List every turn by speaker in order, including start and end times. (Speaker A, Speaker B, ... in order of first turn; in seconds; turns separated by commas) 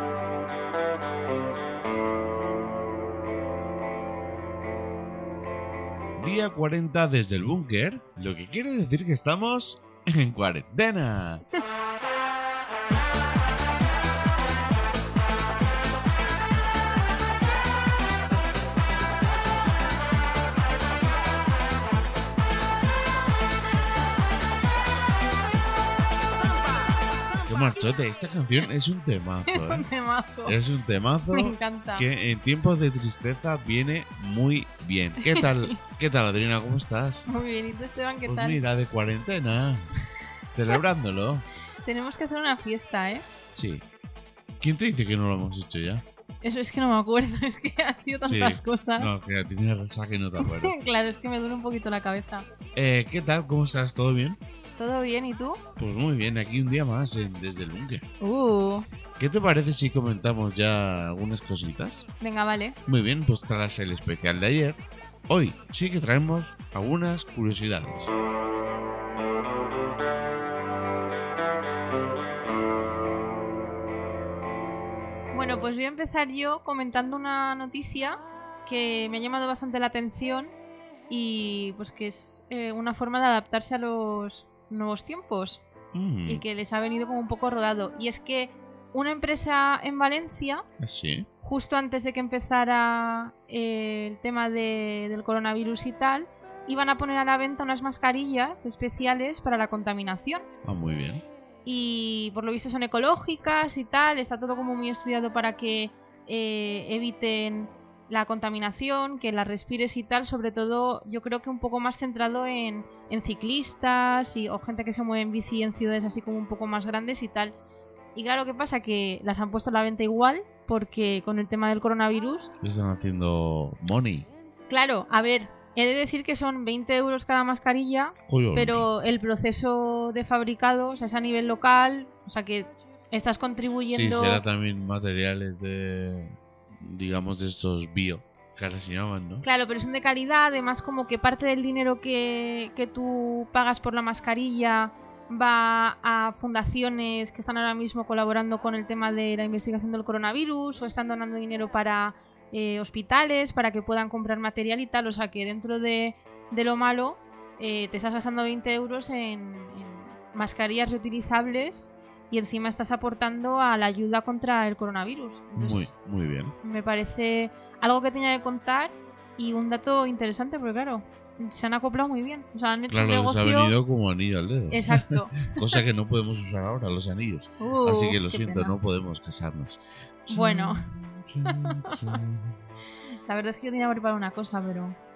Speaker A: 6.2-11.4, Speaker A: 27.5-29.9, Speaker B: 29.5-30.6, Speaker A: 30.4-37.2, Speaker B: 31.3-32.0, Speaker B: 35.2-35.8, Speaker B: 37.3-38.6, Speaker A: 38.2-39.9, Speaker A: 40.5-41.4, Speaker B: 41.8-43.2, Speaker A: 43.5-43.8, Speaker A: 44.6-46.0, Speaker B: 46.4-49.2, Speaker A: 48.2-50.8, Speaker B: 50.4-52.5, Speaker A: 52.7-54.4, Speaker B: 54.8-55.6, Speaker A: 55.8-58.0, Speaker B: 58.2-58.8, Speaker A: 59.2-62.1, Speaker B: 62.2-62.8, Speaker A: 62.9-68.1, Speaker B: 75.3-80.5, Speaker B: 81.1-85.7, Speaker A: 85.9-86.4, Speaker B: 86.3-90.6, Speaker A: 90.8-91.3, Speaker B: 91.4-100.5, Speaker A: 100.6-101.2, Speaker B: 101.6-117.5, Speaker B: 118.1-122.5, Speaker A: 122.6-124.3, Speaker B: 124.7-134.4, Speaker A: 128.3-128.8, Speaker A: 133.9-139.4, Speaker B: 139.4-165.9, Speaker A: 165.6-166.5, Speaker B: 166.6-173.7, Speaker A: 172.9-182.6, Speaker B: 174.7-175.7, Speaker B: 177.6-178.8, Speaker B: 180.3-180.9, Speaker B: 181.4-182.1, Speaker B: 183.3-185.0